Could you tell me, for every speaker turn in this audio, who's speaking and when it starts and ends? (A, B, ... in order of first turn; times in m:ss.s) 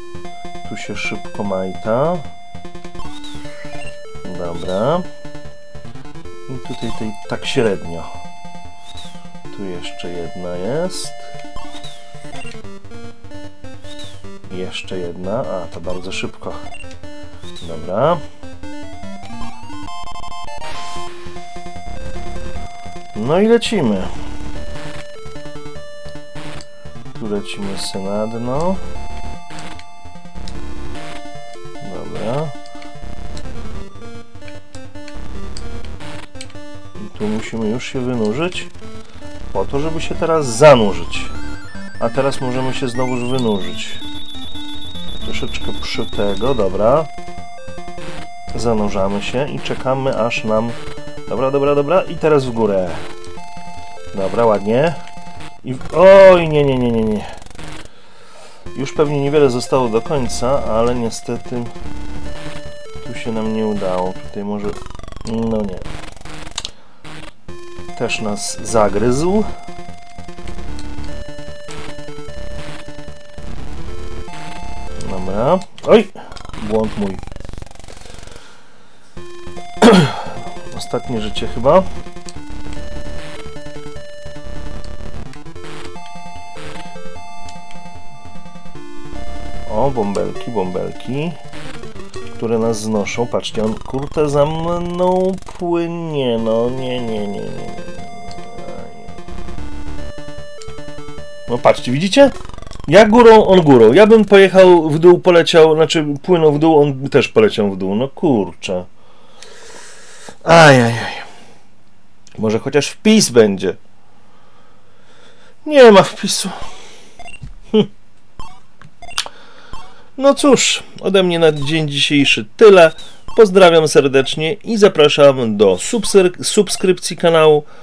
0:00.6-0:02.3 A
0:04.2-0:05.0 A
0:06.5-0:08.1 A
0:09.5-0:11.3 A
0:14.5-0:16.7 A
0:17.6-0:18.2 A
0:23.1-0:24.1 A
0:27.1-0:28.8 A
0:31.8-0:32.6 A
0:37.0-0:38.7 A
0:39.5-0:41.4 A
0:42.0-0:44.0 A
0:45.2-0:47.1 A
0:48.5-0:53.1 A
0:54.1-0:55.0 A
0:55.6-0:57.3 A
0:58.7-1:01.7 A
1:03.0-1:05.9 A
1:07.9-1:09.5 A
1:15.0-1:17.2 A
1:19.8-1:21.9 A
1:29.7-1:31.4 A
1:32.4-1:39.2 A
1:41.5-1:48.9 A
1:50.4-1:51.3 A
1:52.4-1:53.8 A
1:55.6-1:56.6 A
2:00.2-2:07.7 A